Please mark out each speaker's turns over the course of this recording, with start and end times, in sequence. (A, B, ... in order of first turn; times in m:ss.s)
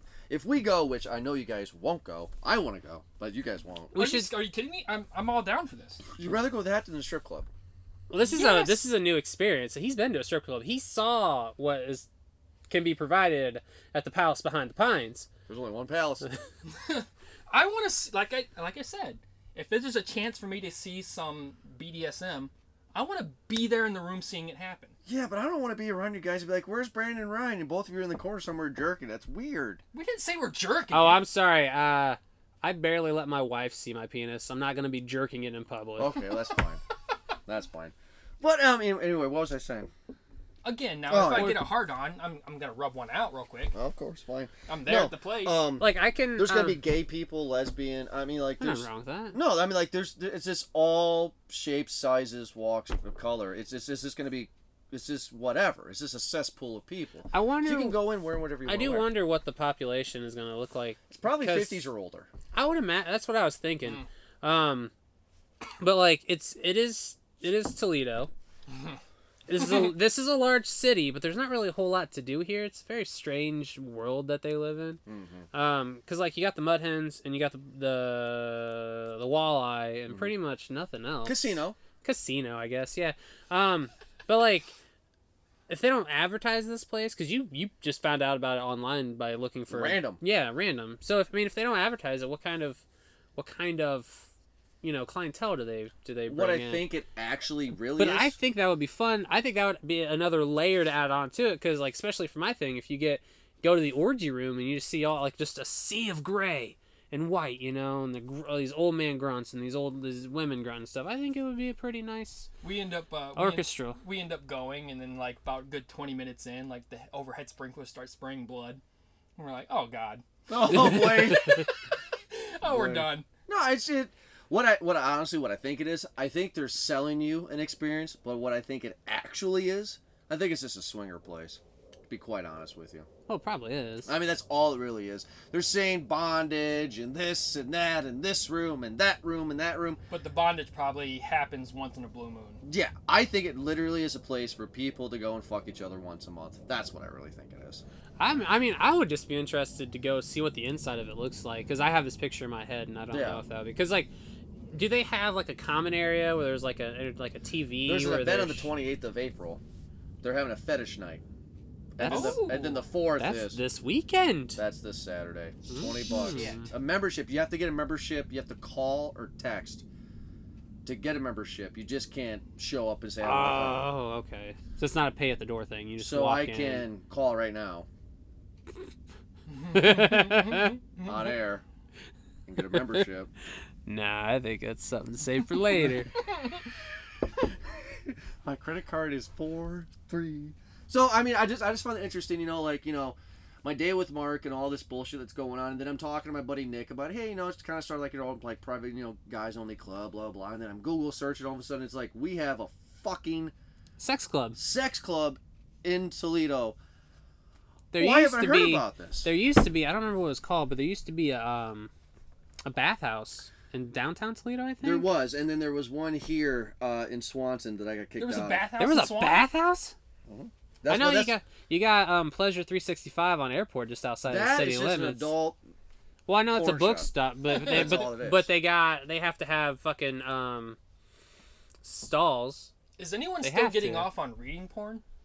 0:00.3-0:04.0 A
0:03.9-0:04.3 B
0:03.9-0:06.0 C
0:06.2-0:07.5 A
0:08.1-0:12.1 B
0:08.2-0:08.8 C
0:12.7-0:15.3 B
0:15.5-0:16.3 A
0:16.7-0:24.9 C
0:25.0-0:29.8 A
0:29.9-0:31.2 C
0:30.9-0:36.2 B
0:36.0-0:36.8 A
0:37.4-0:39.9 A
0:40.6-0:43.7 C
0:41.1-0:41.6 A
0:41.3-0:41.6 B
0:43.7-0:59.1 A
0:44.7-0:45.6 C
0:45.8-0:46.8 B
0:48.6-0:49.4 B
0:57.3-0:58.0 B
0:58.6-1:01.9 B
1:01.1-1:02.3 A
1:02.5-1:04.9 B
1:05.8-1:08.3 B
1:08.7-1:09.0 C
1:09.5-1:15.0 B
1:15.0-1:15.5 A
1:15.5-1:24.7 B
1:21.2-1:21.8 A
1:25.7-1:32.8 B
1:29.7-1:30.2 A
1:33.4-1:34.3 B
1:34.8-1:36.8 B
1:36.3-1:38.4 A
1:38.0-1:52.5 B
1:52.6-1:58.8 C
1:53.4-1:54.0 B
1:59.4-2:01.8 C
2:00.5-2:01.6 A
2:00.7-2:01.6 B
2:02.3-2:03.2 C
2:02.6-2:13.1 A
2:13.3-2:14.1 B
2:14.0-2:20.0 A
2:20.1-2:22.6 C
2:22.6-2:27.8 A
2:28.2-2:34.1 B
2:33.1-2:33.4 A
2:34.7-2:38.7 B
2:37.8-2:39.6 A
2:40.2-2:41.2 A
2:42.0-2:43.6 A
2:42.0-2:42.6 B
2:42.1-2:42.9 C
2:43.2-2:44.6 B
2:44.6-2:49.8 A
2:45.7-2:46.7 B
2:46.2-2:46.6 C
2:50.8-2:53.8 A
2:53.2-2:56.9 B
2:56.0-2:57.9 A
2:59.5-3:01.2 C
2:59.7-3:00.7 B
3:01.0-3:01.6 A
3:02.4-3:03.3 A
3:02.6-3:03.0 B
3:03.8-3:06.1 B
3:07.7-3:23.5 A
3:24.0-3:24.6 B
3:24.6-3:26.8 A
3:27.9-3:31.9 B
3:27.9-3:29.3 A
3:32.6-3:35.1 B
3:34.8-3:38.7 A
3:38.2-3:39.5 C
3:38.8-3:39.9 B
3:40.3-3:41.3 A
3:40.9-3:45.3 B
3:44.3-3:45.6 A
3:46.3-3:50.8 B
3:46.5-3:48.5 A
3:47.5-3:48.1 C
3:51.8-3:52.7 B
3:53.0-3:55.0 C
3:53.4-3:54.1 B